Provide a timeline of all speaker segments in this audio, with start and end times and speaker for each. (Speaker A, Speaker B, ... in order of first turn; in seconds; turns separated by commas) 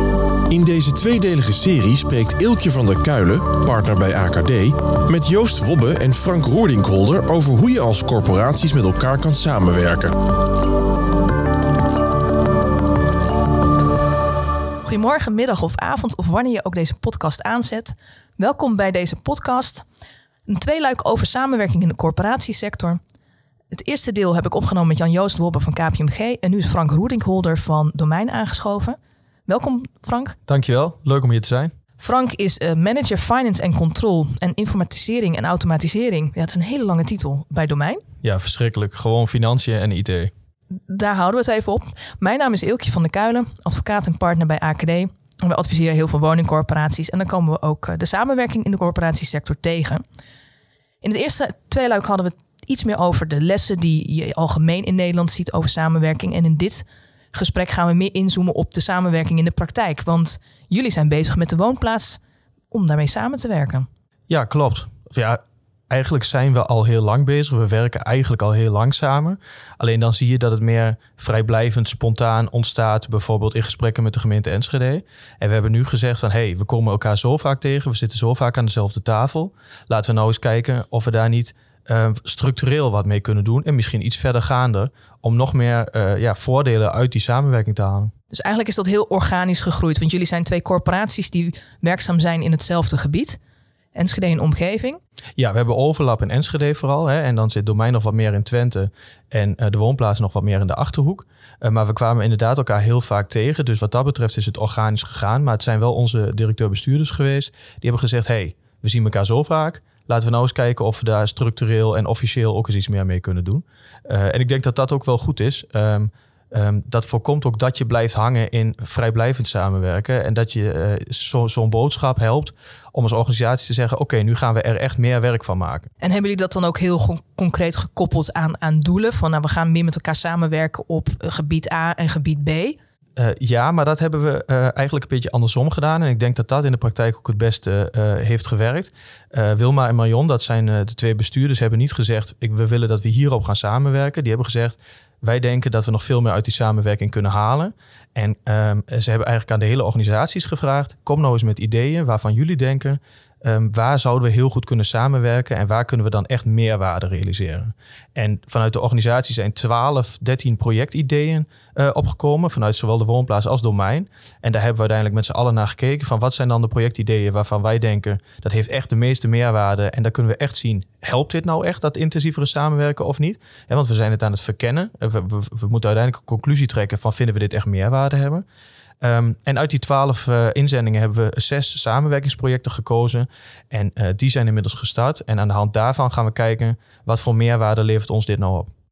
Speaker A: 0.5-10.1, Speaker B: 14.8-19.8, Speaker B: 20.5-23.0, Speaker B: 23.7-30.4, Speaker C: 30.5-31.7, Speaker B: 32.0-38.0, Speaker C: 38.2-40.3, Speaker B: 40.9-50.0, Speaker B: 51.0-62.2, Speaker B: 62.7-63.9, Speaker C: 64.3-88.1, Speaker B: 88.3-93.4, Speaker B: 93.9-95.0, Speaker C: 95.4-125.9, Speaker B: 126.0-132.8, Speaker C: 133.2-178.4, Speaker C: 179.0-188.7